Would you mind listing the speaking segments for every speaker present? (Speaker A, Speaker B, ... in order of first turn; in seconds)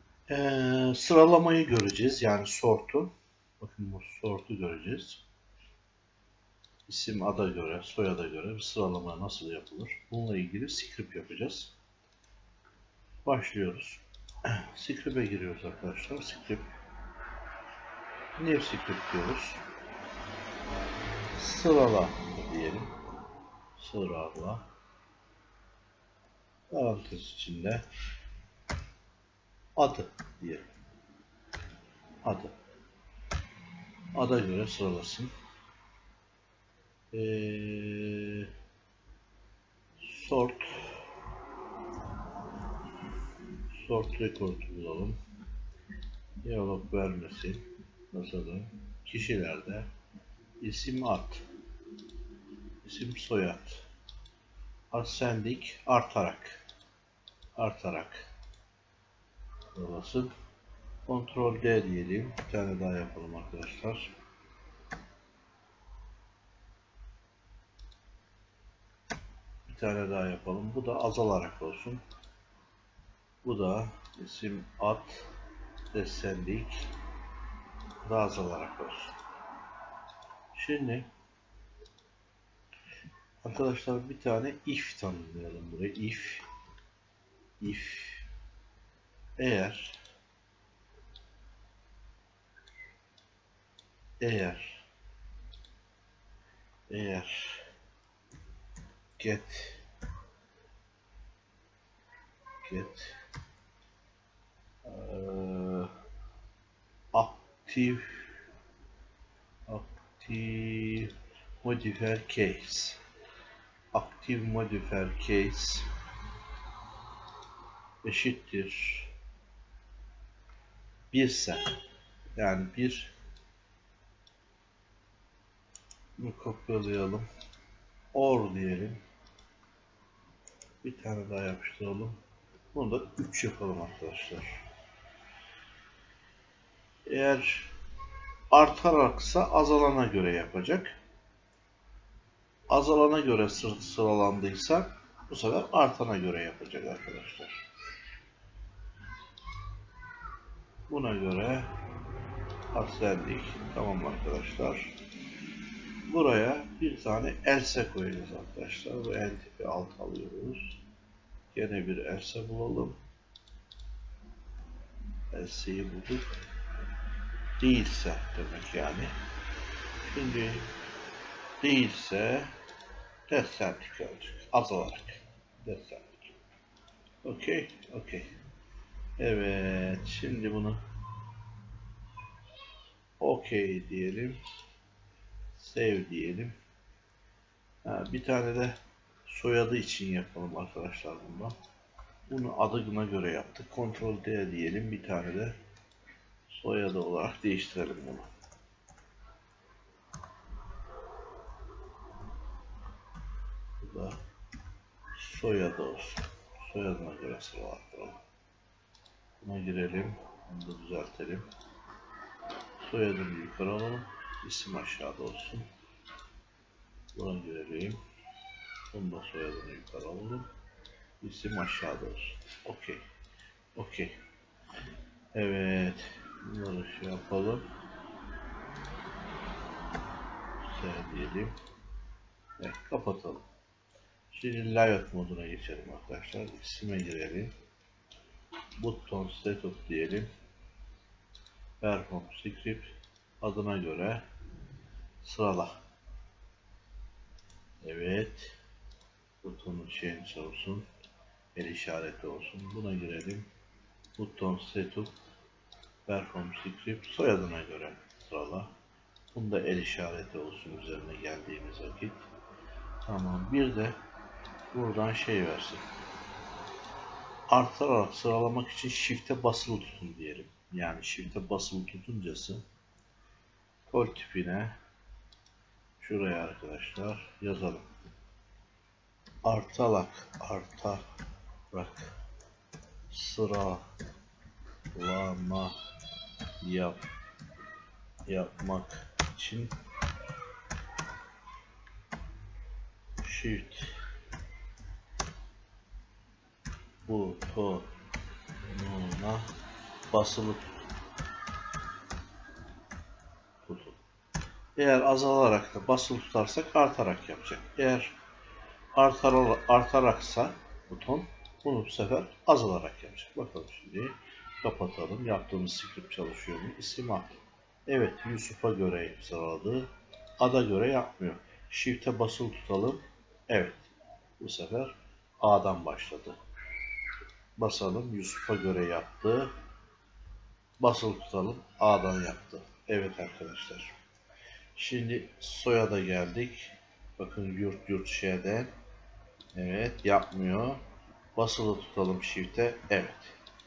Speaker A: 0.3-5.2, 6.9-11.7, 13.2-16.7, 18.4-19.6, 21.4-22.9, 23.8-24.6, 26.7-27.8, 29.8-30.7, 32.2-32.5, 34.1-35.3, 37.1-38.5, 40.0-40.9, 43.7-45.2, 46.4-49.9, 50.6-51.4, 52.8-53.9, 54.9-56.6, 57.6-58.3, 59.7-60.3, 61.1-64.1, 69.7-72.0, 73.4-75.3, 75.9-76.9, 78.0-79.2, 80.5-81.1, 83.4-86.5, 87.6-88.3, 89.4-90.0, 94.2-94.9, 96.9-97.7, 99.2-99.8, 102.6-103.2, 104.8-105.9, 107.1-108.2, 109.7-111.1, 111.6-113.0, 113.9-115.9, 118.0-119.1, 121.1-121.8, 122.4-123.1, 126.2-127.3, 128.1-129.0, 130.8-132.2, 132.7-134.6, 137.1-137.7, 138.5-140.9, 142.7-147.6, 150.9-151.7, 152.7-154.9, 156.1-160.8, 161.5-163.0, 165.3-166.3, 167.6-169.1, 170.0-170.7, 171.6-172.5, 173.3-176.3, 177.2-178.3, 179.2-180.8, 183.2-184.4, 185.6-186.6, 187.8-191.6, 192.3-195.5, 196.5-198.3, 203.8-204.2, 205.1-208.2, 209.4-211.5, 212.8-215.7, 217.1-218.0, 218.9-220.5, 221.2-223.0, 223.8-224.2, 225.3-227.7, 230.6-231.6, 232.6-233.4, 234.3-237.5, 238.8-240.3, 241.8-244.2, 245.2-245.8, 247.8-248.6, 249.4-250.9, 251.6-253.5, 254.2-255.1, 256.1-258.7, 259.3-262.3, 263.0-264.0, 264.7-265.9, 267.5-272.6, 273.9-274.8, 276.0-277.9, 279.4-281.0, 281.7-282.1, 283.1-283.9, 284.9-285.8, 286.6-287.0, 288.3-289.7, 293.2-294.0, 297.0-297.9, 298.7-299.5, 300.1-300.7, 303.6-304.0, 304.8-308.1, 308.9-319.9, 320.4-326.4, 327.6-329.5, 330.8-333.9, 334.8-338.7, 339.5-340.8, 341.4-343.4